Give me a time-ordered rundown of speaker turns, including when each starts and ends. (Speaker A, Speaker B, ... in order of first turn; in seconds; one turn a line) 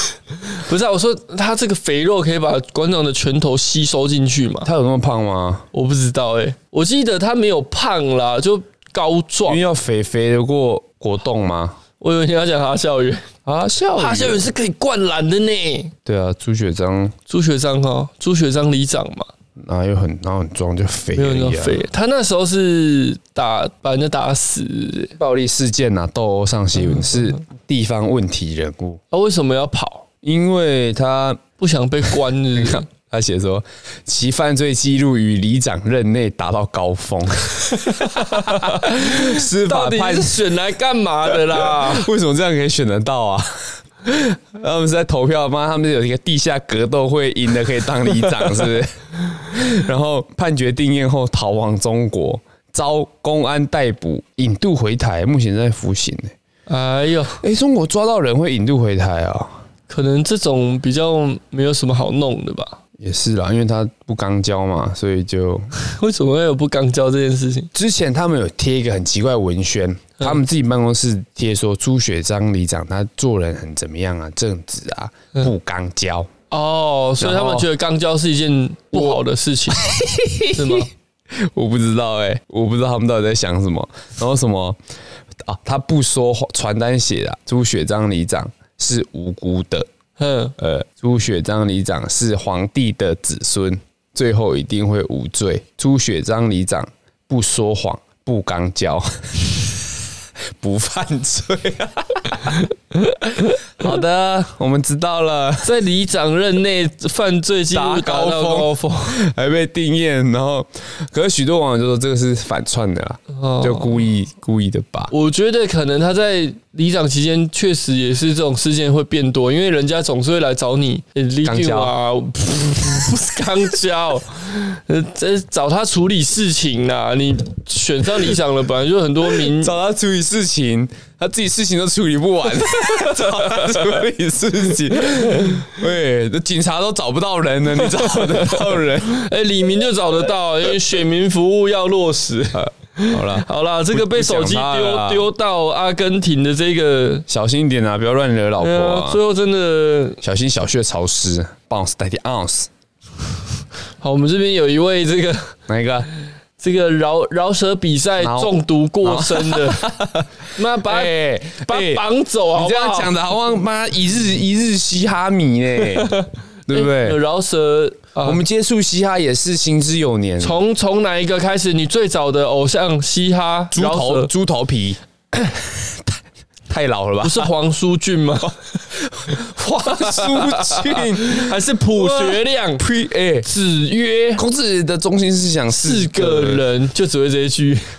Speaker A: 0.5-4.7
Speaker B: 4.6-5.7
Speaker A: 5.7-9.6
Speaker B: 9.5-11.8
Speaker A: 12.0-13.3
Speaker B: 13.4-14.5
Speaker A: 13.9-15.9
Speaker B: 16.0-17.1
Speaker A: 17.3-19.3
Speaker B: 19.6-21.8
Speaker A: 21.1-25.1
Speaker B: 25.1-29.0
Speaker A: 29.1-30.0
Speaker B: 30.2-31.4
Speaker A: 31.6-32.9
Speaker B: 32.5-40.5
Speaker A: 37.9-42.1
Speaker B: 41.3-56.3
Speaker A: 56.7-57.4
Speaker B: 57.4-59.5
Speaker A: 59.9-62.8
Speaker B: 63.0-65.7
Speaker A: 65.7-67.7
Speaker B: 67.7-76.3
Speaker A: 76.5-79.8
Speaker B: 77.2-77.7
Speaker B: 78.9-79.2
Speaker B: 79.8-84.8
Speaker A: 80.5-80.9
Speaker B: 85.4-89.8
Speaker A: 90.2-90.5
Speaker B: 90.6-99.8
Speaker B: 100.6-102.6
Speaker B: 103.5-105.7
Speaker A: 105.6-109.2
Speaker B: 107.7-115.1
Speaker A: 113.3-114.0
Speaker A: 115.1-129.7
Speaker B: 121.4-121.9
Speaker B: 129.3-139.2
Speaker A: 132.7-133.9
Speaker A: 137.8-147.2
Speaker B: 142.5-145.3
Speaker B: 147.3-149.2
Speaker A: 148.6-150.2
Speaker B: 150.2-152.7
Speaker A: 154.0-155.6
Speaker B: 155.7-156.1
Speaker A: 156.6-159.9
Speaker B: 158.2-166.1
Speaker A: 160.5-163.1
Speaker A: 165.9-168.4
Speaker B: 166.7-167.2
Speaker B: 168.2-170.6
Speaker A: 170.4-174.3
Speaker B: 173.7-176.2
Speaker B: 176.7-177.5
Speaker A: 177.2-178.8
Speaker B: 179.0-183.5
Speaker A: 179.8-182.8
Speaker A: 183.4-184.4
Speaker B: 184.3-186.7
Speaker A: 185.7-187.9